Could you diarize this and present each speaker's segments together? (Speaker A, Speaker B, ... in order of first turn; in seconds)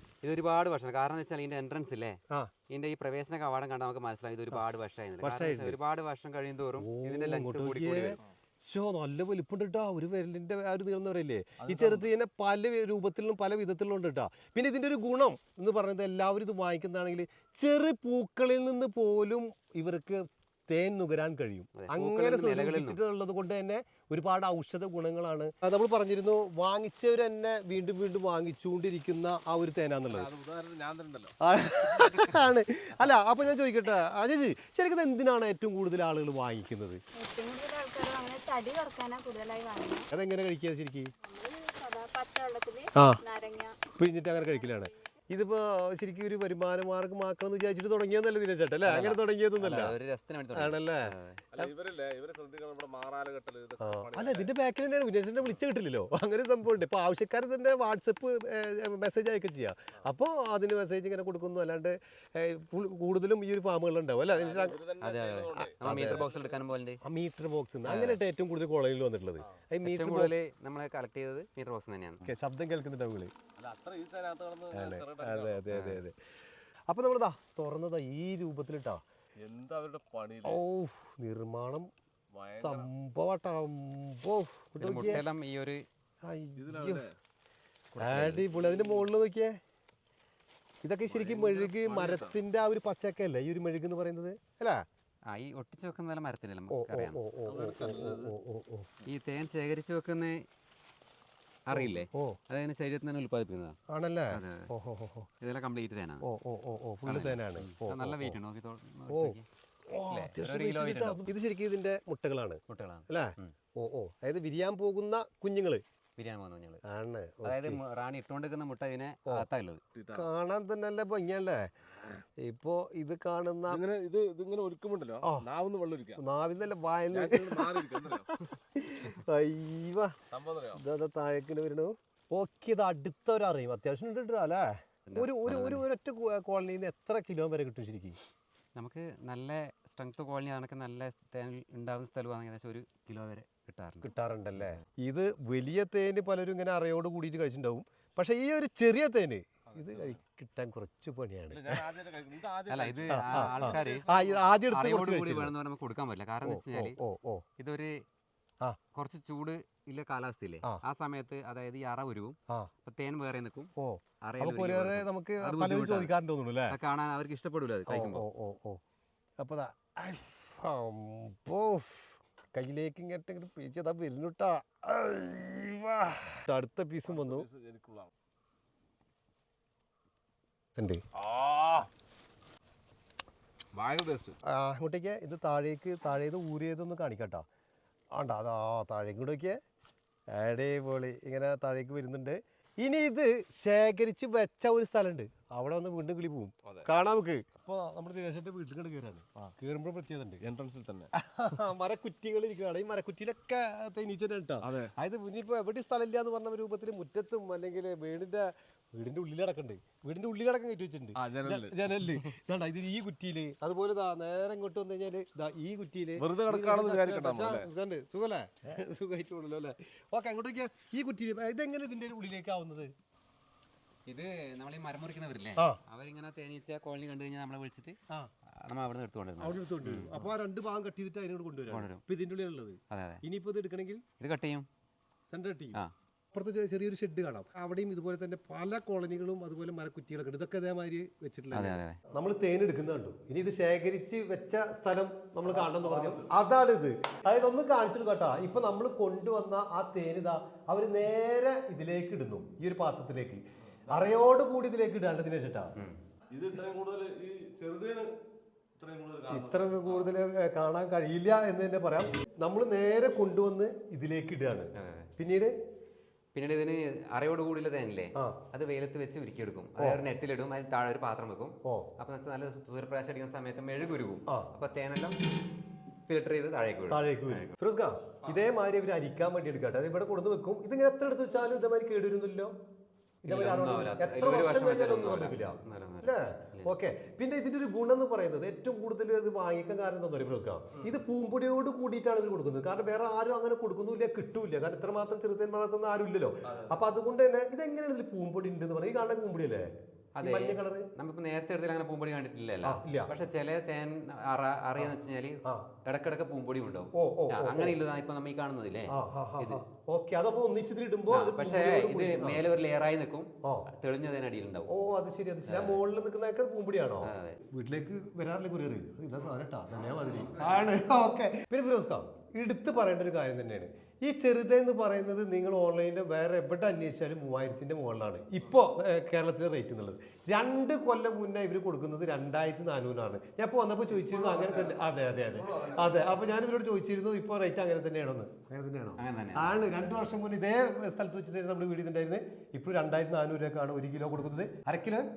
Speaker A: 0.2-2.2, 2.7-8.2, 21.7-23.0, 48.8-51.4, 65.0-67.0, 67.8-68.2, 69.8-72.3, 75.7-76.0, 84.8-85.8, 88.0-88.5, 95.3-97.2, 99.1-100.4, 101.7-103.8, 104.3-104.7, 105.4-106.2, 107.0-109.5, 110.1-111.3, 112.7-113.5, 116.2-116.8, 117.4-119.8, 135.1-135.8, 138.8-144.8, 152.7-154.1, 154.7-157.0, 157.6-158.0, 158.9-163.7, 164.2-166.1, 166.7-168.2, 224.1-230.3, 231.7-232.0, 232.9-233.2, 234.2-234.7, 241.5-242.0, 264.8-265.1, 266.3-275.1, 276.1-277.6, 283.2-286.7, 300.1-309.6, 311.1-314.7, 315.4-315.8, 317.0-317.4, 339.0-339.6
Speaker B: 5.2-5.8, 6.8-30.3, 31.4-37.0, 40.1-41.1, 44.0-50.0, 50.5-51.7, 53.8-64.8, 65.6-66.2, 67.0-70.3, 72.2-73.3, 74.7-76.1, 76.9-79.0, 80.5-81.9, 82.6-85.2, 86.2-87.0, 88.0-89.6, 90.8-94.8, 96.7-98.9, 101.7-102.4, 103.9-105.3, 106.2-108.4, 109.1-109.3, 109.9-115.8, 116.8-117.8, 120.1-121.7, 122.4-123.8, 126.2-130.1, 130.8-138.2, 144.0-151.8, 153.1-155.5, 156.4-157.4, 163.8-166.8, 167.9-168.8, 169.4-177.5, 180.8-181.0, 184.5-187.4, 188.2-189.6, 190.3-200.4, 201.1-222.9, 229.4-234.0, 235.3-235.8, 236.3-255.7, 259.3-265.5, 276.9-282.5, 283.2-300.9, 302.6-303.1, 306.9-307.8, 308.9-312.4, 314.7-345.1
Speaker C: 11.6-12.1, 30.1-31.3, 51.5-54.5, 64.3-66.6, 73.6-75.6, 79.4-80.6, 82.3-82.9, 86.5-87.1, 88.0-89.0, 91.0-92.4, 97.5-98.3, 119.9-120.3, 123.7-126.2, 127.1-128.4, 130.3-130.8, 149.7-150.2, 151.5-154.5, 177.0-178.1, 181.2-181.9, 183.7-184.4, 200.4-201.1, 204.6-204.9, 211.2-212.3, 216.2-217.7, 245.4-246.3, 256.3-258.1, 258.8-260.1, 296.4-296.8, 320.3-320.6, 333.9-336.2
Speaker D: 37.1-40.1, 41.2-43.8, 44.4-44.8